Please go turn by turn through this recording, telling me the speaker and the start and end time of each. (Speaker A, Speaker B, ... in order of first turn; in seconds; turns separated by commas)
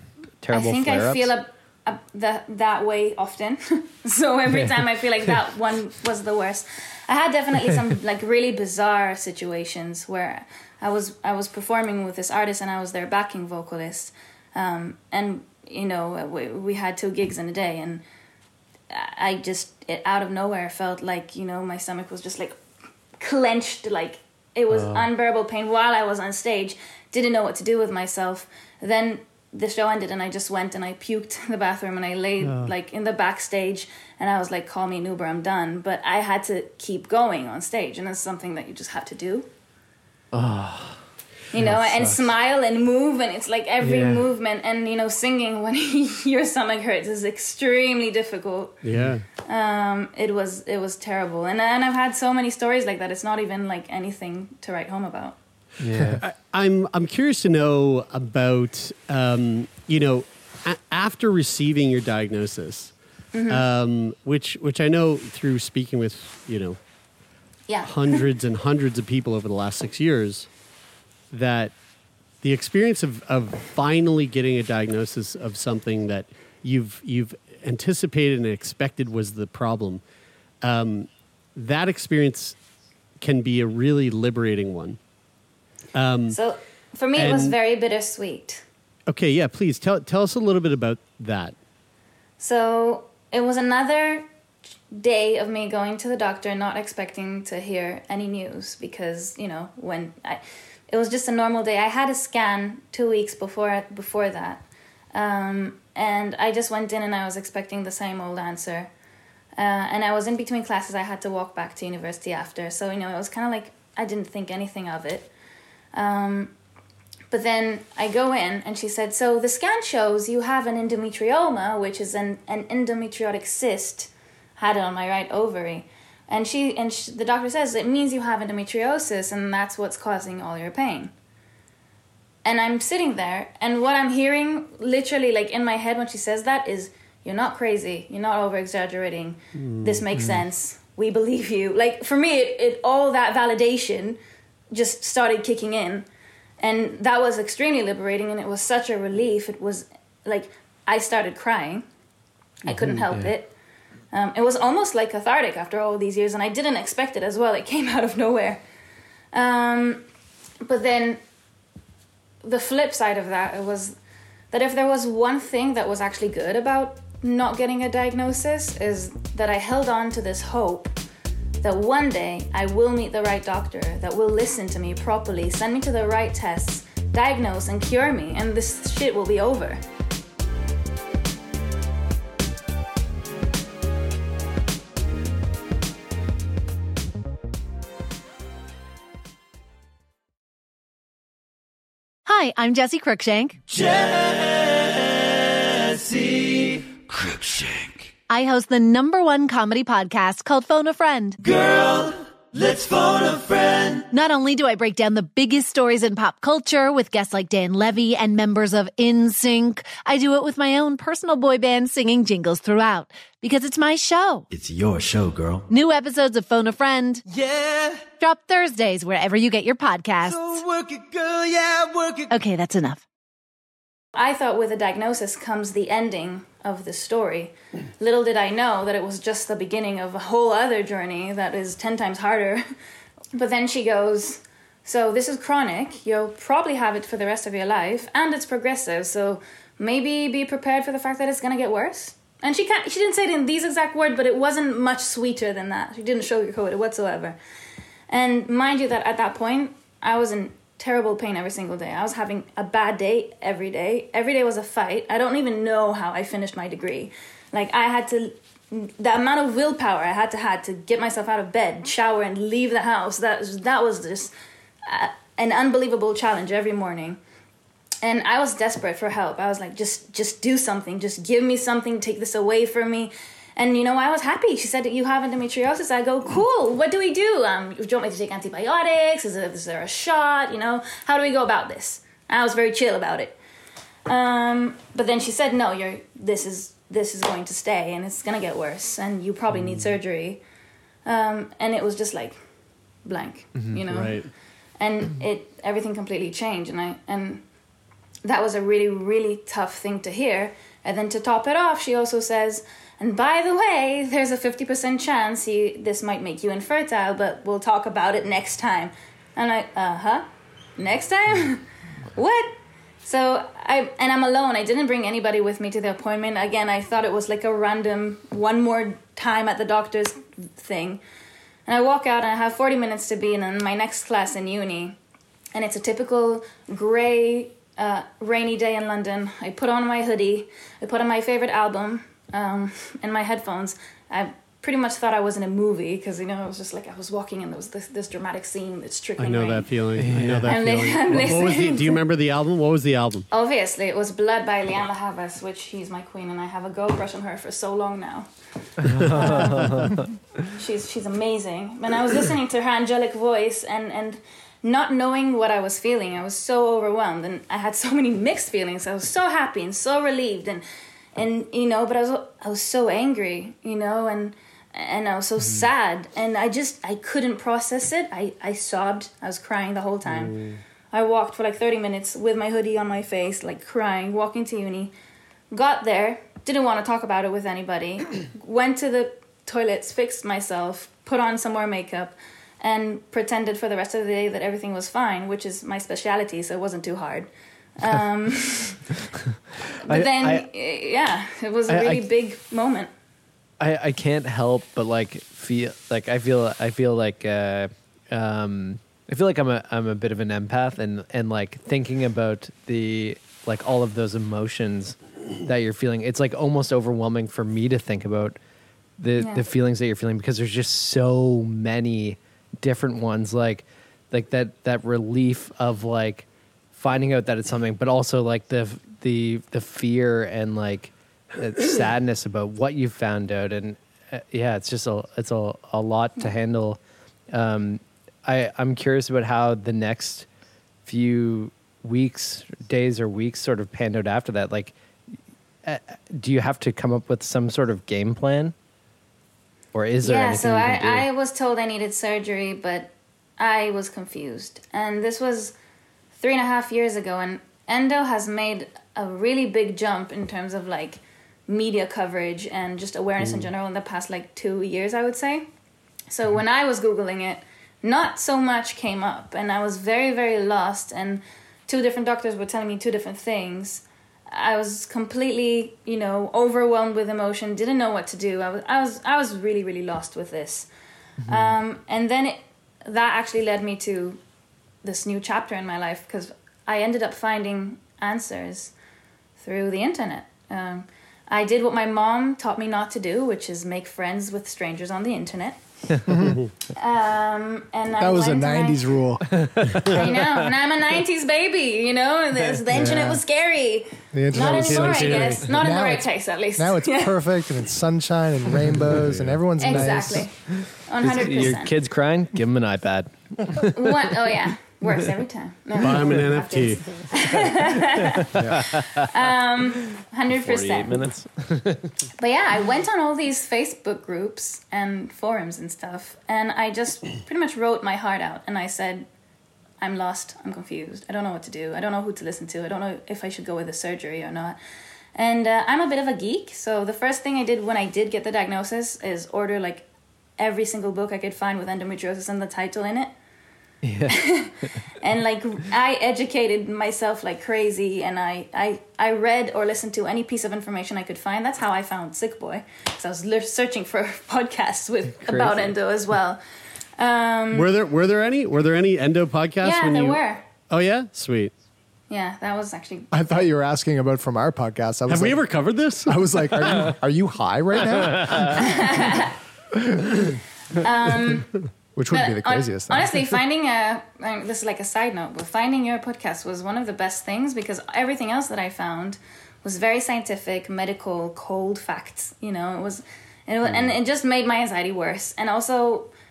Speaker A: 0.4-1.3, Speaker B: 0.5-18.0, Speaker B: 18.9-22.6, Speaker B: 23.2-39.5, Speaker A: 24.7-25.1, Speaker C: 32.4-32.7, Speaker A: 40.3-41.0, Speaker B: 41.5-48.8, Speaker A: 41.5-42.3, Speaker A: 43.8-44.3, Speaker C: 48.8-49.3, Speaker B: 49.5-55.4, Speaker A: 55.8-56.2, Speaker C: 56.2-63.0, Speaker B: 63.3-63.6, Speaker C: 63.5-66.8, Speaker B: 67.7-68.2, Speaker C: 67.8-70.5, Speaker C: 71.3-71.7, Speaker C: 72.4-80.0, Speaker C: 80.6-82.6, Speaker C: 83.2-85.0, Speaker C: 85.9-86.4, Speaker B: 86.3-88.7, Speaker C: 87.2-87.6, Speaker C: 89.1-91.6, Speaker B: 92.4-94.3, Speaker B: 94.9-108.9, Speaker B: 109.6-115.3, Speaker B: 115.9-116.5, Speaker B: 117.3-131.1, Speaker B: 132.4-144.2, Speaker C: 139.6-140.0, Speaker A: 140.2-140.4, Speaker B: 144.7-146.1, Speaker B: 146.6-151.9, Speaker B: 152.7-153.5, Speaker A: 152.7-153.3, Speaker B: 154.1-158.6, Speaker B: 159.3-160.0, Speaker B: 160.6-161.2, Speaker B: 162.4-164.0, Speaker B: 164.5-170.9, Speaker B: 171.6-179.8, Speaker D: 192.3-193.6, Speaker E: 193.8-194.8, Speaker E: 195.9-198.1, Speaker D: 198.3-201.4, Speaker E: 201.5-204.0, Speaker D: 204.0-214.5, Speaker E: 214.5-215.7, Speaker D: 215.7-217.2, Speaker E: 217.4-218.0, Speaker D: 218.2-220.6, Speaker E: 220.3-222.3, Speaker D: 222.3-223.0, Speaker B: 224.2-232.6, Speaker B: 233.3-247.4, Speaker B: 248.1-264.3, Speaker B: 264.9-267.2, Speaker B: 268.0-283.4, Speaker B: 284.1-290.4, Speaker B: 291.1-292.4, Speaker B: 293.1-294.2, Speaker C: 293.9-294.3, Speaker B: 294.8-297.4, Speaker B: 298.2-310.3, Speaker B: 310.8-321.0, Speaker B: 321.7-325.0, Speaker B: 325.5-339.7, Speaker C: 339.2-343.3, Speaker A: 340.0-340.6, Speaker B: 340.5-342.0, Speaker B: 343.3-348.3, Speaker A: 348.9-350.1, Speaker C: 349.1-349.9, Speaker B: 349.2-349.6, Speaker B: 350.5-360.6, Speaker B: 361.1-370.3, Speaker A: 365.4-365.7, Speaker C: 370.1-370.6, Speaker B: 370.9-374.9, Speaker B: 375.5-388.9, Speaker B: 389.8-392.9, Speaker A: 389.9-390.5, Speaker A: 391.7-392.1, Speaker A: 393.6-408.4, Speaker A: 409.0-426.8, Speaker B: 409.2-409.4, Speaker A: 427.3-430.3, Speaker A: 430.9-434.8, Speaker A: 435.6-438.6, Speaker A: 439.7-441.1, Speaker B: 440.0-445.6, Speaker B: 446.1-455.5, Speaker C: 453.2-453.5, Speaker B: 456.1-470.7, Speaker A: 471.2-471.5, Speaker B: 471.3-474.2, Speaker B: 474.8-478.7, Speaker B: 479.4-485.6, Speaker F: 486.1-486.4, Speaker B: 486.8-488.8, Speaker F: 488.0-489.5, Speaker A: 489.4-490.5, Speaker B: 489.9-497.3, Speaker F: 492.7-493.2, Speaker F: 494.1-500.5, Speaker C: 494.4-495.4, Speaker C: 498.9-499.4, Speaker B: 499.6-501.8, Speaker A: 500.6-504.0, Speaker B: 503.6-508.4, Speaker C: 505.8-507.1, Speaker F: 508.4-508.7, Speaker A: 508.4-509.1, Speaker B: 509.0-511.1, Speaker A: 510.3-511.9, Speaker B: 512.2-519.1, Speaker B: 519.8-524.6, Speaker B: 525.1-529.9, Speaker B: 530.4-533.1, Speaker A: 533.8-534.3, Speaker B: 534.2-546.4, Speaker C: 545.2-545.7, Speaker B: 547.0-547.7, Speaker C: 547.5-551.5, Speaker B: 549.6-550.4, Speaker B: 552.1-553.4, Speaker F: 553.1-555.5, Speaker C: 555.1-557.0, Speaker F: 556.0-559.0, Speaker A: 558.2-558.5, Speaker B: 558.6-559.3, Speaker B: 560.8-561.5, Speaker F: 562.0-563.3, Speaker B: 562.1-576.1, Speaker C: 573.7-573.9